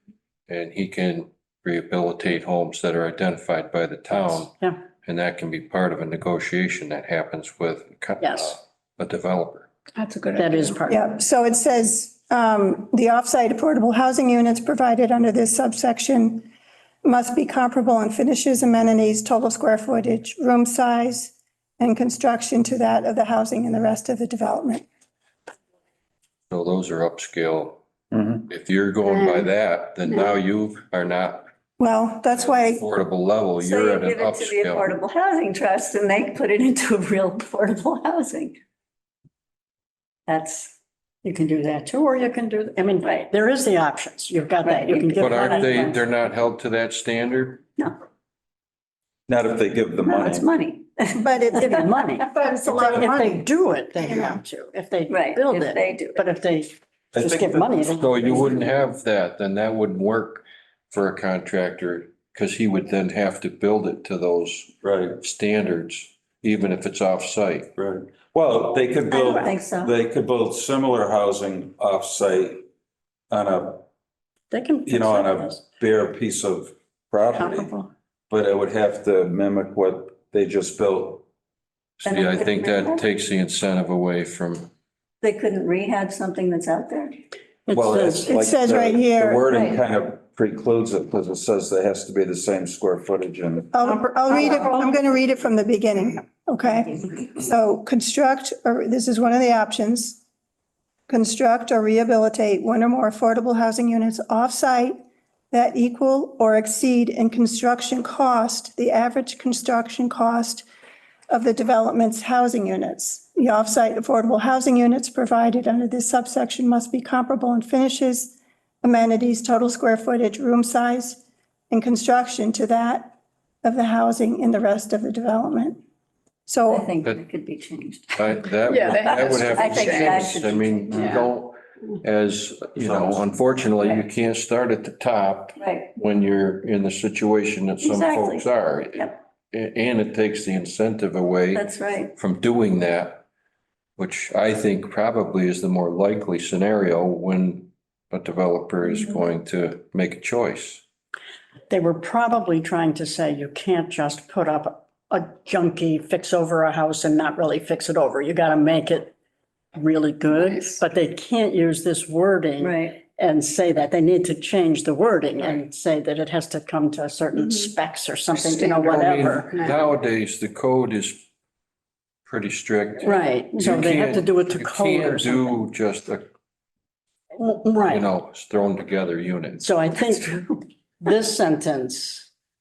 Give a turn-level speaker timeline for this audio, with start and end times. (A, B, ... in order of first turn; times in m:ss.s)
0:00.5-0:04.5 A
0:04.1-0:04.8 B
0:05.0-0:09.7 A
0:08.2-0:08.6 B
0:10.0-0:10.8 C
0:10.3-0:11.0 B
0:10.9-0:16.5 D
0:17.0-0:24.8 D
0:26.5-0:27.8 A
0:28.1-0:28.4 E
0:28.5-0:31.5 A
0:31.8-0:32.8 D
0:32.3-0:35.0 A
0:33.6-0:38.6 F
0:40.3-0:40.7 F
0:41.2-0:45.8 B
0:44.6-0:46.0 F
0:45.2-0:47.6 A
0:49.3-0:50.5 E
0:50.0-0:51.8 F
0:51.2-0:53.4 D
0:51.6-0:58.7 B
0:54.0-0:54.4 D
0:55.1-0:56.2 F
0:57.1-0:57.8 E
0:57.9-1:07.7 A
1:04.8-1:05.2 E
1:07.8-1:12.6 E
1:09.1-1:09.9 F
1:13.3-1:13.8 E
1:14.5-1:15.6 B
1:14.8-1:17.8 E
1:17.3-1:17.9 B
1:18.3-1:21.2 E
1:22.0-1:24.7 A
1:22.0-1:23.0 F
1:25.2-1:27.2 F
1:27.7-1:28.3 B
1:27.7-1:33.7 E
1:28.3-1:29.5 D
1:29.5-1:29.8 F
1:33.7-1:40.2 D
1:34.3-1:34.7 B
1:34.3-1:34.7 F
1:36.6-1:37.1 F
1:41.1-1:45.0 D
1:45.5-1:50.6 D
1:51.3-2:05.8 D
2:06.5-2:06.8 D
2:06.7-2:08.2 F
2:08.2-2:23.2 A
2:08.6-2:10.3 C
2:09.3-2:11.2 F
2:10.9-2:11.3 C
2:12.8-2:13.2 E
2:15.6-2:15.9 F
2:17.8-2:18.4 F
2:21.5-2:22.1 F
2:24.0-2:30.8 A
2:31.7-2:39.1 B
2:39.7-2:49.5 B
2:42.6-2:43.0 F
2:48.3-2:49.8 C
2:48.8-2:51.3 A
2:52.2-2:56.2 A
2:53.0-2:55.6 B
2:57.4-2:58.1 B
2:57.8-2:59.6 A
2:59.6-3:02.3 B